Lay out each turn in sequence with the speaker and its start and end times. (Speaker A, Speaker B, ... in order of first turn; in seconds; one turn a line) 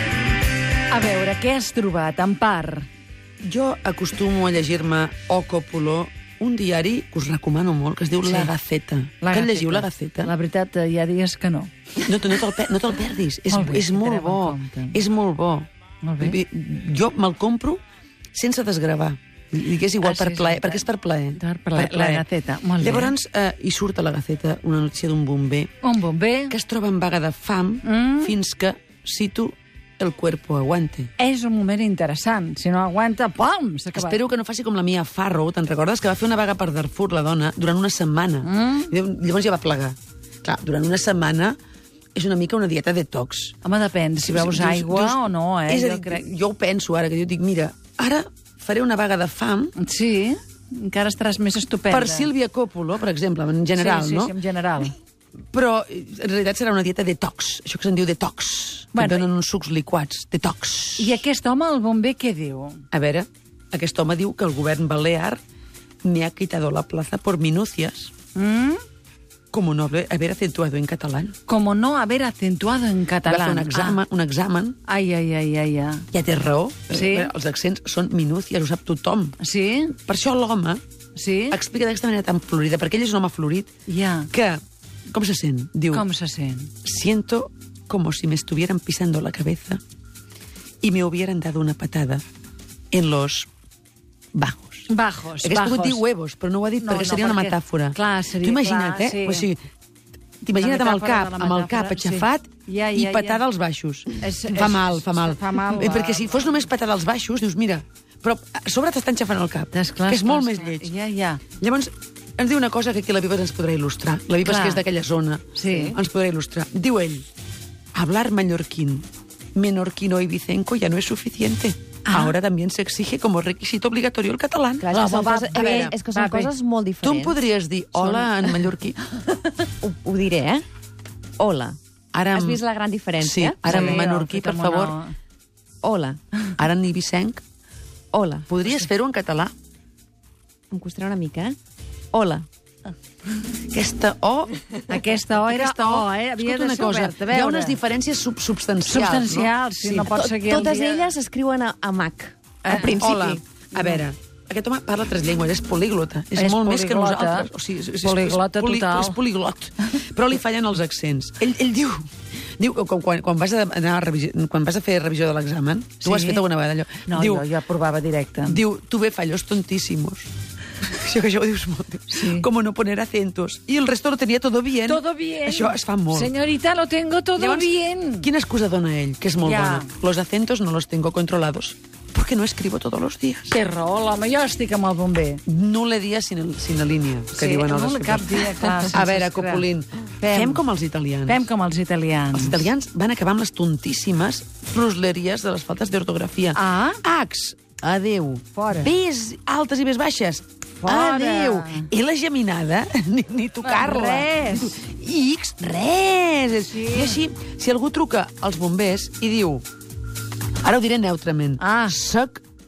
Speaker A: 0.9-2.9
Speaker B: 3.4-10.3
Speaker A: 8.2-8.5
Speaker A: 9.2-12.3
Speaker B: 12.0-17.8
Speaker A: 13.5-15.0
Speaker A: 16.0-16.4
Speaker B: 18.3-22.2
Speaker A: 20.0-20.8
Speaker A: 21.4-23.1
Speaker B: 22.8-25.7
Speaker A: 25.8-26.5
Speaker B: 26.5-31.1
Speaker A: 27.8-28.3
Speaker A: 31.2-34.2
Speaker B: 33.9-41.6
Speaker A: 38.4-38.9
Speaker B: 42.1-43.6
Speaker A: 43.6-46.2
Speaker B: 44.2-49.7
Speaker A: 49.8-52.3
Speaker B: 51.9-54.4
Speaker A: 53.7-55.0
Speaker B: 55.5-61.2
Speaker A: 58.9-59.3
Speaker A: 61.0-62.8
Speaker B: 62.9-65.4
Speaker B: 66.0-68.1
Speaker A: 68.3-68.8
Speaker B: 69.5-71.3
Speaker A: 71.5-74.0
Speaker B: 73.2-74.8
Speaker A: 74.8-76.1
Speaker B: 76.1-79.4
Speaker A: 76.9-77.3
Speaker A: 79.4-80.0
Speaker B: 79.9-80.8
Speaker A: 81.1-81.6
Speaker B: 81.5-83.7
Speaker A: 83.8-84.3
Speaker B: 84.3-86.1
Speaker A: 85.9-86.7
Speaker B: 86.8-89.8
Speaker B: 90.8-92.2
Speaker B: 92.9-93.5
Speaker B: 94.3-99.6
Speaker A: 94.9-96.0
Speaker A: 96.8-99.5
Speaker B: 100.4-110.9
Speaker A: 100.5-103.4
Speaker A: 104.2-106.6
Speaker A: 109.7-111.4
Speaker B: 111.6-117.2
Speaker A: 114.4-114.8
Speaker A: 115.5-116.0
Speaker B: 117.9-126.0
Speaker A: 122.1-122.3
Speaker C: 124.8-127.4
Speaker A: 124.9-126.5
Speaker B: 127.0-129.0
Speaker C: 128.0-128.3
Speaker C: 129.8-130.6
Speaker C: 131.4-131.8
Speaker B: 132.1-132.6
Speaker C: 132.3-133.8
Speaker B: 133.2-135.0
Speaker A: 133.6-135.1
Speaker C: 135.8-136.2
Speaker B: 136.6-137.4
Speaker C: 138.1-138.5
Speaker B: 138.5-139.5
Speaker C: 140.7-141.6
Speaker C: 142.1-142.5
Speaker B: 143.7-150.1
Speaker A: 144.9-147.8
Speaker A: 148.8-151.1
Speaker C: 150.0-153.4
Speaker A: 152.6-153.1
Speaker B: 152.7-167.5
Speaker A: 156.3-157.5
Speaker A: 158.0-159.2
Speaker A: 166.0-166.4
Speaker A: 167.0-168.6
Speaker B: 168.4-170.3
Speaker B: 170.8-176.3
Speaker A: 172.1-172.4
Speaker A: 174.8-178.3
Speaker B: 177.3-183.6
Speaker A: 179.4-179.9
Speaker A: 183.5-185.4
Speaker B: 185.4-191.5
Speaker A: 187.3-189.7
Speaker A: 190.2-190.6
Speaker A: 191.2-192.7
Speaker B: 192.3-209.6
Speaker A: 196.5-197.0
Speaker A: 198.5-198.9
Speaker A: 200.8-201.9
Speaker A: 203.6-204.8
Speaker A: 206.6-207.2
Speaker B: 210.6-212.4
Speaker A: 211.6-212.0